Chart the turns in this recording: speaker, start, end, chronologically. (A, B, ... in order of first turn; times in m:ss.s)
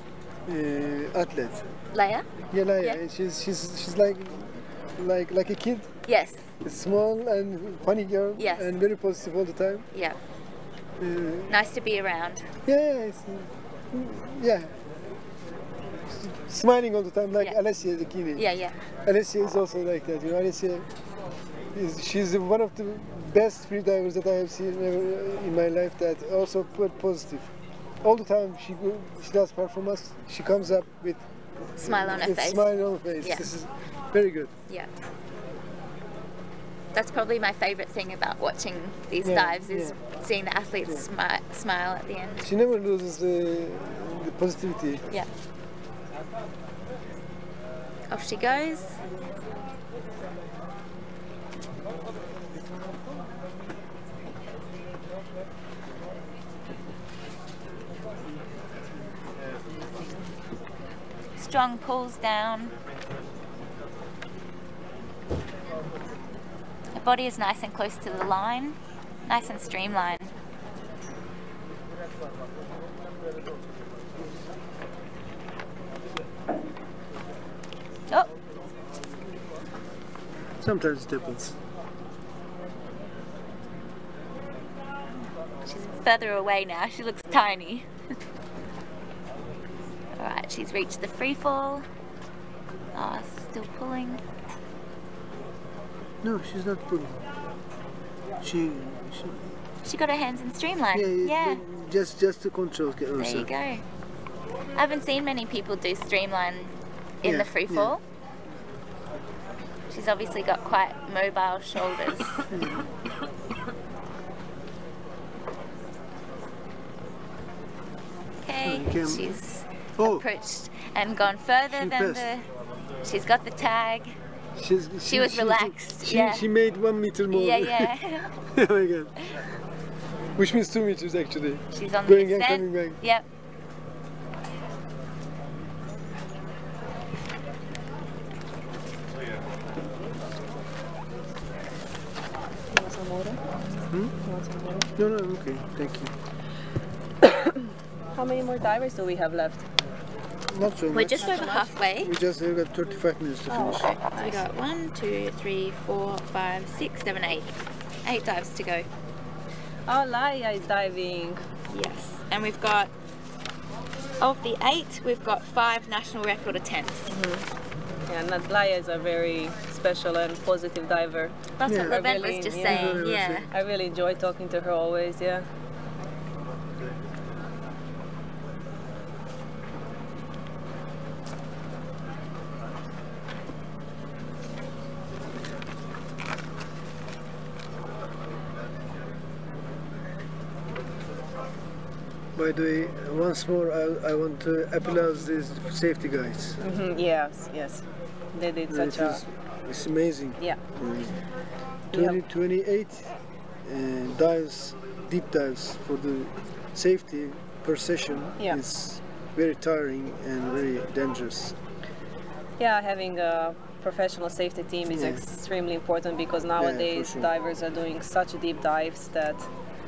0:00.5-0:01.7 A
0:01.9-0:02.3 B
0:02.5-0:05.9 A
0:06.0-0:06.5 B
0:06.6-0:09.9 A
0:08.4-0:08.7 B
0:09.9-0:10.2 B
0:11.0-0:11.5 A
0:11.5-0:12.5 B
0:12.7-0:14.7 A
0:16.1-0:18.4 A
0:18.4-0:18.8 B
0:19.0-0:20.9 A
0:21.7-0:27.5 A
0:28.0-0:31.2 A
0:31.8-0:34.5 A
0:31.8-0:33.5 B
0:36.9-0:42.5 B
0:39.2-0:40.0 A
0:42.4-0:45.0 A
0:48.1-0:49.0 B
1:01.4-1:02.7 B
1:07.0-1:10.3 B
1:20.6-1:21.6 A
1:25.6-1:27.9 B
1:30.2-1:31.8 B
1:32.9-1:34.2 B
1:36.2-1:37.2 A
1:38.4-1:39.5 A
1:39.8-1:41.6 B
1:40.9-1:43.5 A
1:43.2-1:43.8 B
1:44.8-1:48.0 B
1:47.2-1:48.0 A
1:49.9-1:52.5 B
1:52.5-1:52.9 A
1:58.4-2:02.5 B
1:58.6-1:59.4 A
2:00.0-2:00.2 A
2:01.7-2:02.3 A
2:03.0-2:04.2 B
2:04.6-2:09.2 A
2:05.1-2:06.5 B
2:07.3-2:08.3 B
2:10.4-2:13.0 A
2:11.7-2:13.3 B
2:22.7-2:23.4 C
2:24.2-2:24.9 C
2:25.0-2:26.1 A
2:27.2-2:29.6 C
2:30.5-2:33.9 A
2:30.9-2:32.1 B
2:31.2-2:31.7 C
2:33.5-2:34.5 C
2:33.9-2:37.5 B
2:38.0-2:38.9 B
2:39.9-2:41.4 C
2:41.7-2:42.9 B
2:44.2-2:47.2 B
2:47.1-2:47.5 C
2:48.1-2:55.5 C
2:51.6-2:53.5 B
2:51.6-2:52.0 A
2:52.6-2:53.5 A
3:12.4-3:16.6 A
3:16.6-3:19.2 C
3:18.7-3:21.2 A
3:21.9-3:22.2 C
3:21.9-3:23.1 A
3:23.7-3:31.6 A
3:32.6-3:39.5 C
3:34.9-3:35.2 A
3:36.6-3:37.3 A